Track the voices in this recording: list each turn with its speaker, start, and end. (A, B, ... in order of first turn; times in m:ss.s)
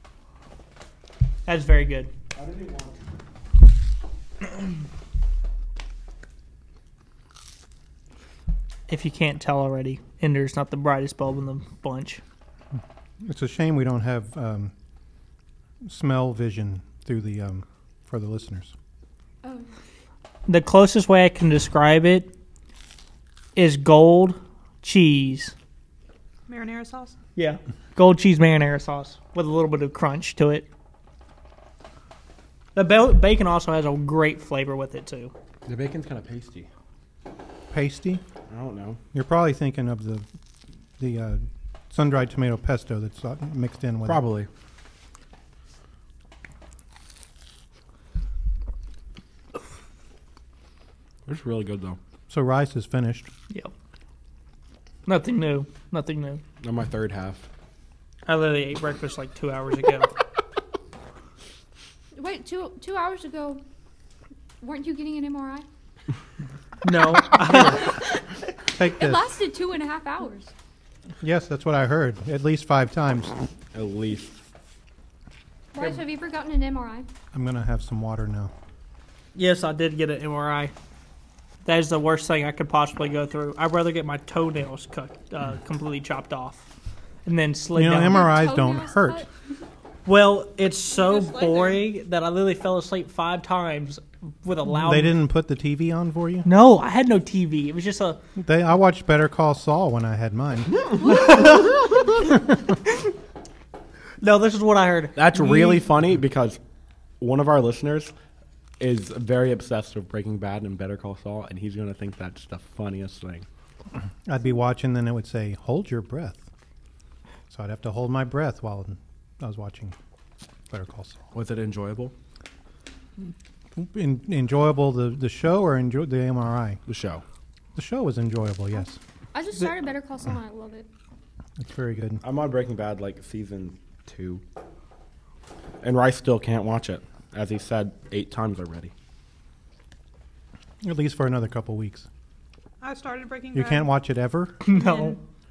0:01.5-0:02.1 A
0:02.3-0:03.0 B
0:08.9-0:12.2 A
0:13.2-0:14.7 C
0:15.8-0:18.7 C
0:19.4-0:19.7 D
0:20.5-0:22.3 A
0:23.6-0:25.5 A
0:26.5-0:27.1 E
0:27.4-0:30.7 A
0:32.8-0:35.3 A
0:35.7-0:36.7 B
0:37.7-0:38.2 C
0:38.5-0:39.0 B
0:39.1-0:40.2 C
0:41.0-0:44.2 C
0:44.0-0:44.5 B
0:51.2-0:52.0 B
0:52.3-0:53.3 C
0:55.1-0:56.4 A
0:56.6-0:57.4 B
0:58.2-1:00.1 A
1:02.1-1:03.6 D
1:04.6-1:05.7 D
1:06.8-1:08.0 A
1:07.5-1:08.2 D
1:08.8-1:09.3 C
1:08.8-1:10.5 D
1:11.2-1:13.3 C
1:13.7-1:14.4 B
1:15.7-1:17.1 D
1:17.3-1:18.5 C
1:19.4-1:20.7 A
1:21.6-1:26.7 A
1:27.2-1:28.3 A
1:27.8-1:29.2 C
1:28.1-1:29.3 D
1:30.1-1:35.2 A
1:30.9-1:31.9 E
1:34.7-1:36.5 C
1:36.4-1:38.2 A
1:38.4-1:40.8 C
1:41.0-1:41.8 A
1:44.2-1:45.8 A
1:45.1-1:46.6 B
1:47.2-1:48.1 B
1:48.8-1:53.4 B
1:54.2-1:56.4 C
1:57.5-1:59.9 C
2:00.7-2:01.2 C
2:01.3-2:02.1 B
2:03.8-2:06.8 C
2:06.9-2:07.2 B
2:07.8-2:09.0 C
2:09.3-2:10.9 D
2:11.6-2:12.2 C
2:12.2-2:14.4 B
2:15.8-2:18.9 B
2:20.8-2:22.1 C
2:22.8-2:23.9 E
2:23.5-2:24.6 C
2:24.6-2:25.2 A
2:24.6-2:25.2 E